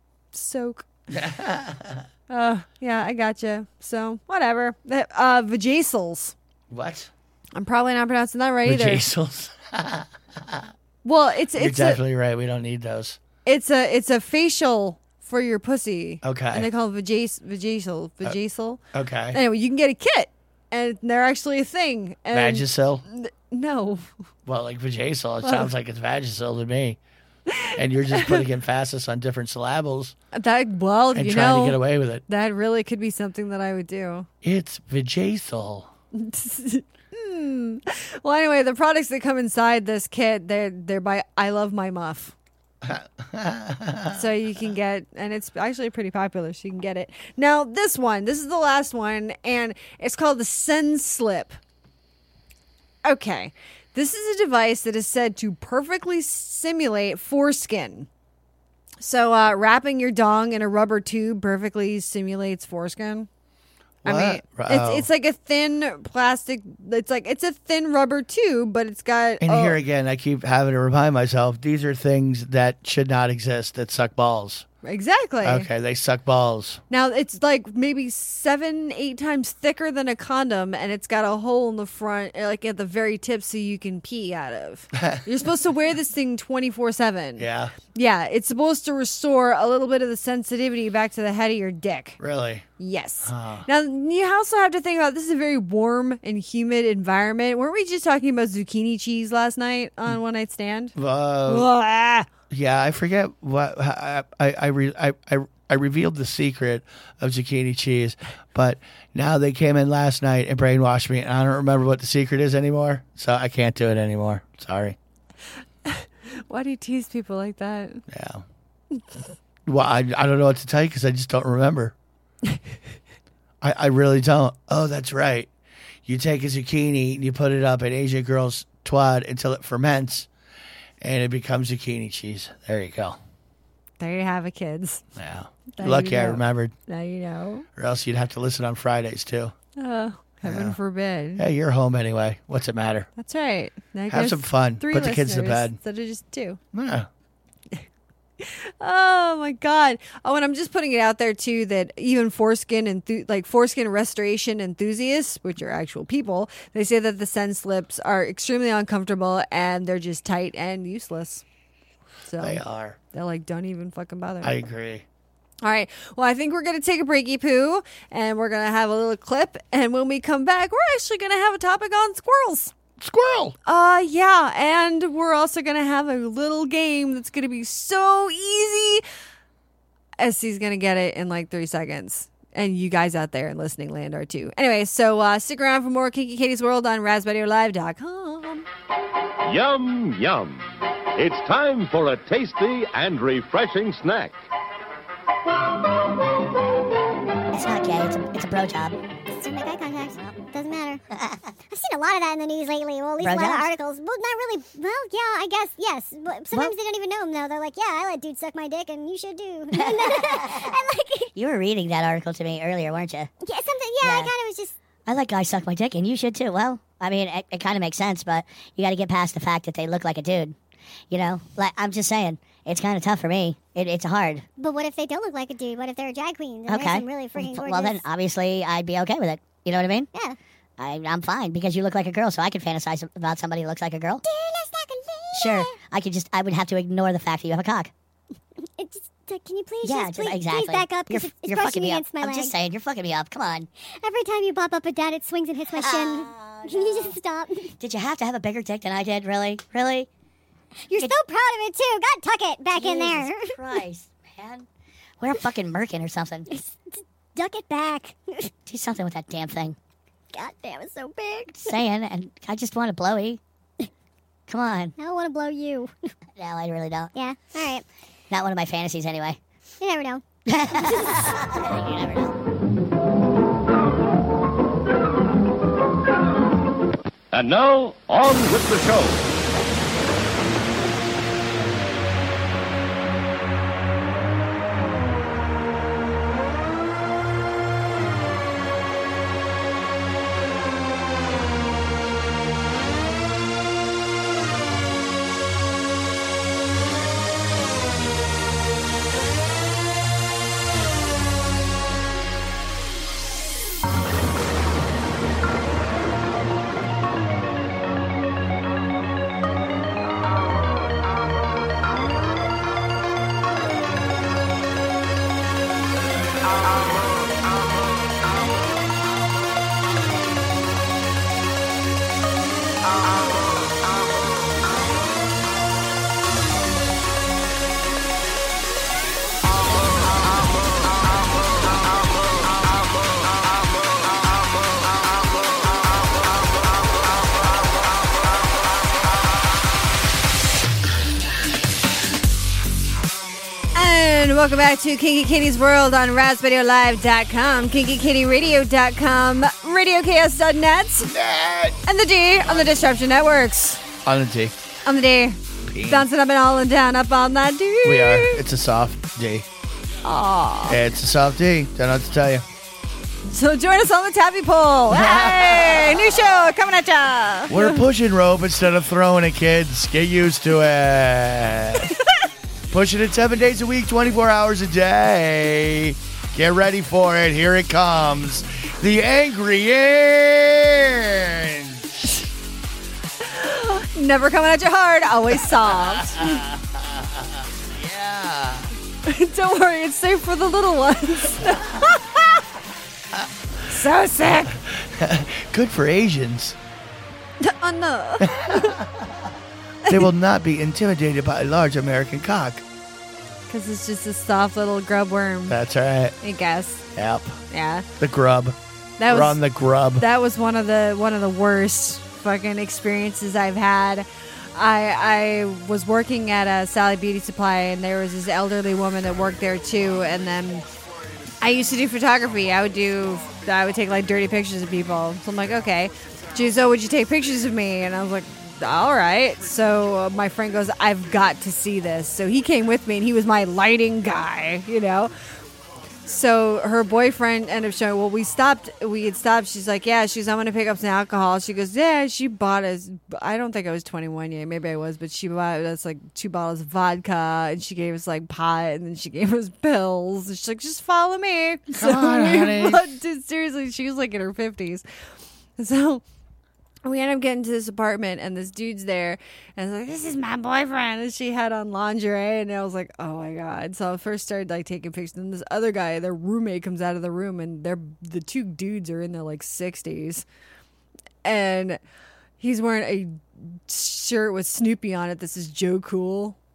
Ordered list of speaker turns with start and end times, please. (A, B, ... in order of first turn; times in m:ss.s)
0:00.3-0:00.8 A
0:01.1-0:02.0 B
0:02.3-0:06.3 A
0:06.7-0:07.1 B
0:07.5-0:09.0 A
0:08.6-0:10.7 B
0:11.0-0:12.0 A
0:11.5-0:13.2 B
0:13.4-0:18.8 A
0:16.2-0:16.7 B
0:18.9-0:19.4 B
0:19.3-0:24.1 A
0:22.3-0:23.0 B
0:24.4-0:27.0 B
0:25.4-0:25.7 A
0:27.5-0:28.4 A
0:27.7-0:30.1 B
0:30.3-0:34.3 A
0:31.1-0:32.2 B
0:34.4-0:35.9 B
0:36.1-0:42.3 A
0:42.8-0:44.3 B
0:44.1-0:51.6 A
0:53.0-0:58.1 A
0:59.0-1:03.3 A
1:04.0-1:05.1 B
1:04.0-1:09.8 A
1:09.4-1:14.6 B
1:14.8-1:15.7 A
1:15.4-1:16.8 B
1:16.9-1:32.2 A
1:24.9-1:25.2 B
1:27.4-1:27.7 B
1:32.2-1:32.7 B
1:32.8-1:40.9 A
1:33.2-1:33.7 B
1:40.9-1:41.7 B
1:41.4-1:42.3 A
1:42.5-1:55.0 B
1:55.8-1:58.0 A
1:58.1-1:58.4 B
1:59.6-2:01.9 B
2:03.6-2:05.5 B
2:06.0-2:10.3 B
2:11.0-2:13.2 B
2:14.0-2:15.0 A
2:15.2-2:16.7 B
2:15.7-2:17.6 A
2:17.8-2:19.5 B
2:19.8-2:21.4 A
2:20.4-2:20.8 B
2:21.4-2:23.1 B
2:23.2-2:26.6 A
2:24.1-2:25.8 B
2:26.7-2:27.1 B
2:28.4-2:41.4 A
2:42.2-2:44.5 A
2:42.4-2:43.0 B
2:44.4-2:45.0 B
2:45.6-2:52.7 A
2:53.0-2:53.5 B
2:53.6-2:59.0 A
3:00.2-3:08.7 A
3:09.4-3:14.4 C
3:17.5-3:19.0 D
3:19.3-3:21.0 E
3:21.1-3:21.4 D
3:21.7-3:31.3 E
3:23.2-3:23.7 D
3:29.7-3:30.8 D
3:31.3-3:33.3 D
3:33.4-3:34.7 E
3:34.0-3:34.3 D
3:35.0-3:40.5 D
3:41.1-3:44.4 D
3:44.6-3:48.0 E
3:46.7-3:50.1 D
3:50.8-3:54.2 D
3:54.2-3:55.8 E
3:55.3-3:57.9 D
3:58.8-4:02.5 E
3:59.8-4:03.7 D
4:03.8-4:07.7 E
4:05.7-4:07.1 D
4:07.8-4:10.1 D
4:10.9-4:13.6 E
4:12.7-4:14.7 D
4:15.2-4:16.5 D
4:16.5-4:16.8 E
4:17.4-4:18.5 E
4:18.6-4:19.8 D
4:20.3-4:21.8 E
4:21.6-4:23.4 D
4:24.5-4:24.9 D
4:25.0-4:25.9 E
4:26.4-4:27.1 D
4:27.1-4:27.8 E
4:28.3-4:29.4 D
4:29.8-4:30.2 E
4:30.5-4:32.3 D
4:37.3-4:39.2 C
5:43.7-5:51.1 A
5:51.0-5:51.8 B
5:51.8-5:53.8 A
5:54.0-5:54.5 B
5:54.8-5:58.4 A
5:55.7-5:56.1 B
5:57.8-5:59.5 B
6:00.0-6:00.8 A
6:00.6-6:02.4 B
6:03.3-6:07.8 A
6:04.9-6:06.0 B
6:07.5-6:12.0 B
6:12.7-6:21.9 B
6:23.2-6:26.4 A
6:25.8-6:28.7 B
6:29.0-6:32.4 A
6:33.6-6:34.6 A
6:34.6-6:36.6 B
6:37.4-6:38.8 A
6:38.2-6:39.2 B
6:39.9-6:42.6 B
6:43.5-6:45.6 A
6:45.5-6:46.1 B
6:46.2-6:46.8 A
6:46.9-6:47.4 B
6:47.5-6:47.9 A
6:48.0-6:50.0 B
6:49.0-6:49.4 A
6:49.9-7:00.6 A
7:01.4-7:15.1 A
7:16.0-7:34.8 A
7:31.7-7:32.8 B
7:35.6-7:36.0 A
7:36.8-7:50.2 A
7:51.2-7:51.8 A
7:52.4-7:56.4 A